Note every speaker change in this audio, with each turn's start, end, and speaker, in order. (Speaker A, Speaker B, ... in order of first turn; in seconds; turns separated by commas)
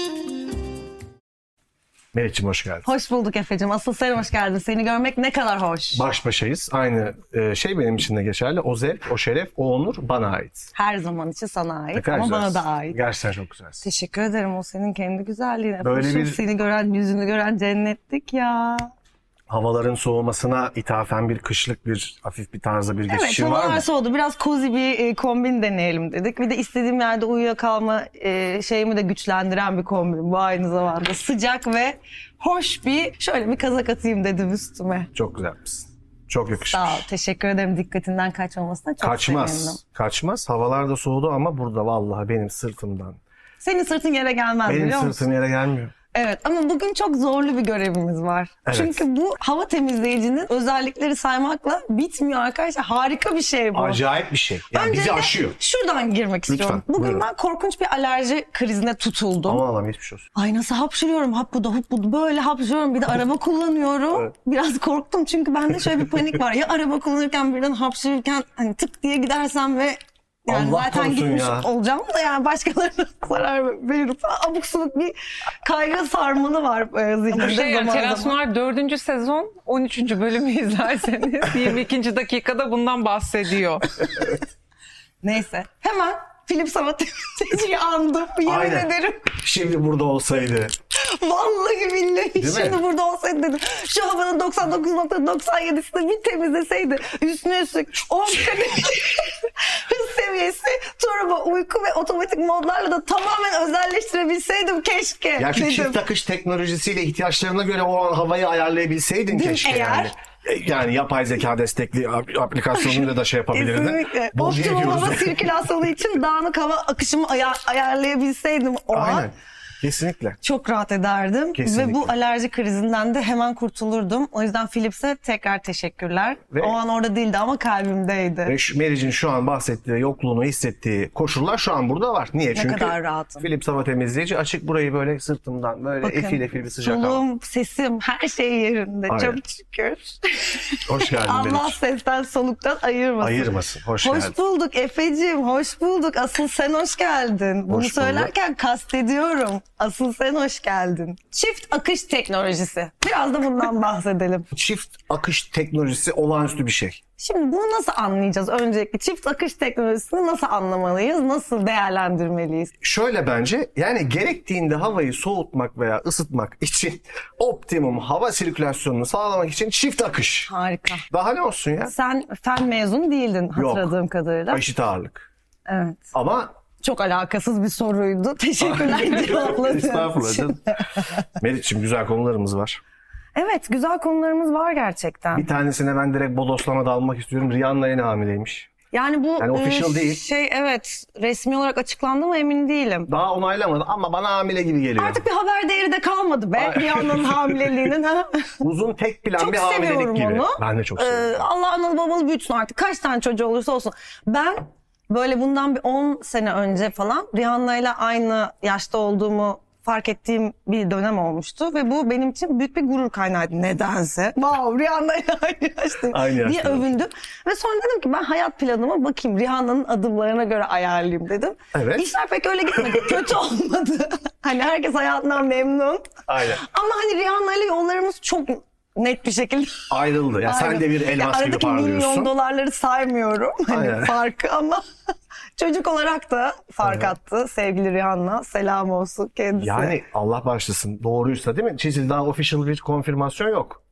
Speaker A: 2.1-2.9, Speaker B: 2.8-6.0, Speaker A: 5.9-10.7, Speaker B: 10.8-13.0, Speaker A: 11.9-13.8, Speaker B: 13.8-18.9, Speaker A: 15.8-16.4, Speaker A: 19.5-23.9, Speaker B: 23.1-35.1, Speaker A: 35.1-37.1, Speaker B: 36.7-39.8, Speaker A: 39.0-43.2, Speaker B: 43.6-45.2, Speaker A: 44.7-46.0, Speaker B: 46.1-54.0, Speaker A: 48.7-49.0, Speaker A: 53.7-55.6, Speaker B: 54.7-59.6, Speaker A: 56.5-57.2, Speaker A: 59.5-60.3, Speaker B: 60.4-78.3, Speaker A: 70.5-71.7, Speaker C: 77.3-84.3, Speaker B: 85.2-89.3, Speaker A: 88.4-90.7, Speaker B: 91.0-106.0, Speaker A: 92.4-92.8, Speaker A: 105.4-115.5, Speaker B: 109.3-110.1, Speaker B: 112.8-119.3, Speaker A: 118.9-120.4, Speaker B: 120.4-128.6, Speaker A: 121.6-122.1, Speaker A: 128.5-137.2, Speaker B: 132.6-133.5, Speaker B: 136.0-154.5, Speaker A: 139.1-139.4, Speaker A: 140.9-141.8, Speaker A: 143.2-144.3, Speaker A: 147.7-148.3, Speaker A: 154.5-157.0, Speaker B: 157.2-162.7, Speaker A: 162.8-170.5, Speaker B: 170.5-171.1, Speaker A: 171.1-171.9, Speaker B: 171.8-174.6, Speaker A: 173.6-173.9, Speaker A: 174.5-175.3, Speaker B: 175.7-176.1, Speaker A: 176.1-176.5, Speaker B: 176.8-181.2, Speaker A: 178.6-180.6, Speaker A: 181.4-182.8, Speaker B: 183.3-185.5, Speaker A: 185.3-188.7, Speaker B: 188.9-193.1, Speaker A: 189.4-190.2, Speaker A: 193.1-195.2, Speaker B: 195.0-198.6, Speaker A: 196.6-197.7, Speaker A: 198.6-201.5, Speaker B: 199.4-229.9, Speaker A: 216.1-216.9, Speaker A: 221.7-222.1, Speaker A: 222.9-223.2, Speaker A: 226.3-226.6, Speaker A: 229.9-232.3, Speaker B: 230.4-234.8, Speaker A: 233.7-234.1, Speaker B: 235.6-240.0, Speaker A: 236.8-237.1, Speaker A: 239.6-243.8